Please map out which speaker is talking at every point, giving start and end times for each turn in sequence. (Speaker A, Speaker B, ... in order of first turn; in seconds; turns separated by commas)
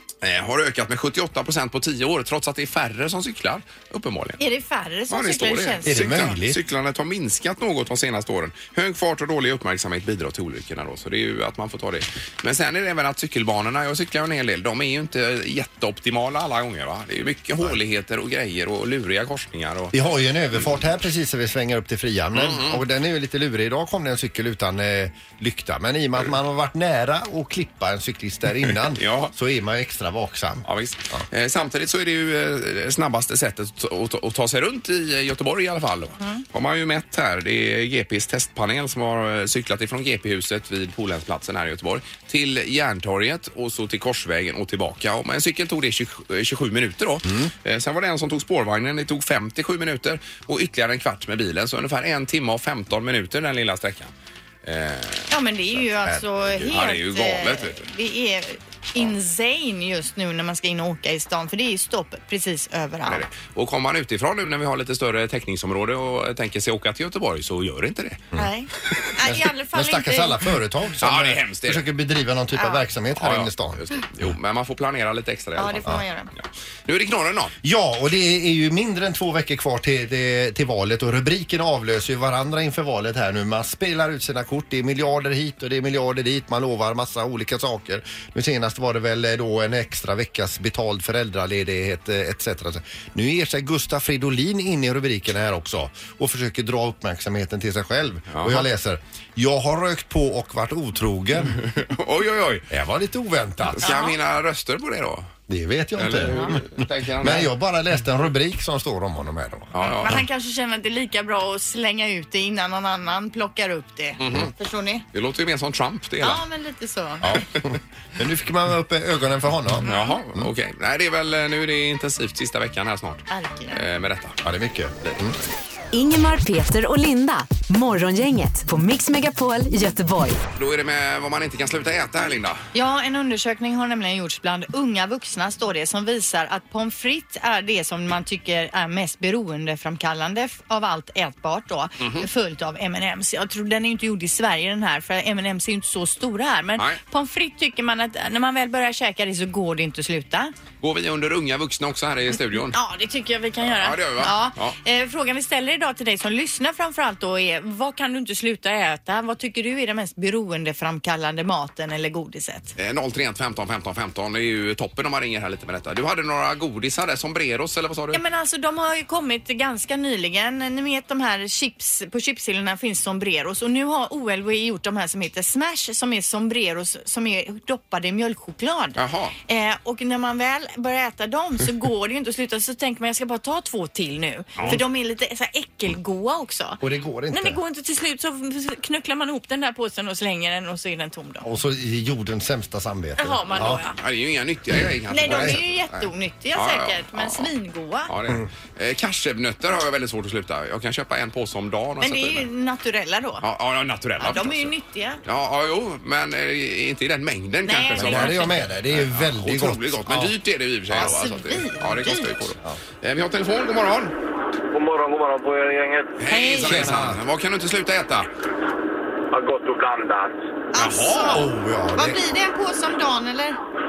Speaker A: 0.2-4.4, Speaker B: 4.4-6.3, Speaker A: 5.1-20.0, Speaker C: 5.9-6.6, Speaker C: 19.9-31.2, Speaker A: 22.4-22.8, Speaker A: 28.9-29.3, Speaker A: 30.7-54.1, Speaker C: 47.2-47.5, Speaker A: 54.6-55.3, Speaker B: 55.3-63.3, Speaker A: 56.6-57.8, Speaker A: 63.1-68.2, Speaker B: 68.4-70.5, Speaker C: 69.2-73.8, Speaker A: 71.0-71.9, Speaker B: 72.5-72.9, Speaker A: 73.2-77.5, Speaker B: 75.6-76.3, Speaker C: 77.6-101.6, Speaker A: 98.3-98.7, Speaker A: 101.6-102.7, Speaker C: 102.7-104.0, Speaker A: 103.7-105.3, Speaker B: 103.8-104.2, Speaker C: 105.5-110.2, Speaker A: 106.0-107.5, Speaker A: 109.7-110.2, Speaker B: 109.8-115.0, Speaker A: 114.2-114.5, Speaker A: 115.1-116.4, Speaker B: 116.2-117.4, Speaker C: 117.2-119.9, Speaker A: 119.8-124.4, Speaker B: 119.8-120.2, Speaker B: 123.3-123.8, Speaker C: 124.4-125.4, Speaker D: 125.9-130.4, Speaker A: 130.6-132.6, Speaker B: 132.7-150.5, Speaker A: 142.0-142.3, Speaker A: 150.8-152.8, Speaker B: 152.7-162.7, Speaker A: 153.7-154.8, Speaker A: 162.8-168.2, Speaker B: 168.1-191.5, Speaker A: 179.0-179.4, Speaker C: 186.8-187.6, Speaker C: 191.4-193.8, Speaker B: 193.2-194.0, Speaker A: 193.9-195.7, Speaker B: 195.1-198.1, Speaker C: 195.3-195.6, Speaker A: 196.5-197.5, Speaker A: 198.1-202.5, Speaker B: 202.0-203.4, Speaker A: 203.4-204.7, Speaker B: 204.2-205.2, Speaker A: 205.2-214.1, Speaker B: 207.7-208.6, Speaker C: 207.9-210.3, Speaker B: 210.9-212.5, Speaker E: 214.7-216.1, Speaker A: 216.2-218.3, Speaker B: 216.3-217.0, Speaker C: 216.7-217.2, Speaker E: 219.3-220.4, Speaker B: 220.7-223.6, Speaker A: 220.8-221.4, Speaker C: 221.2-222.2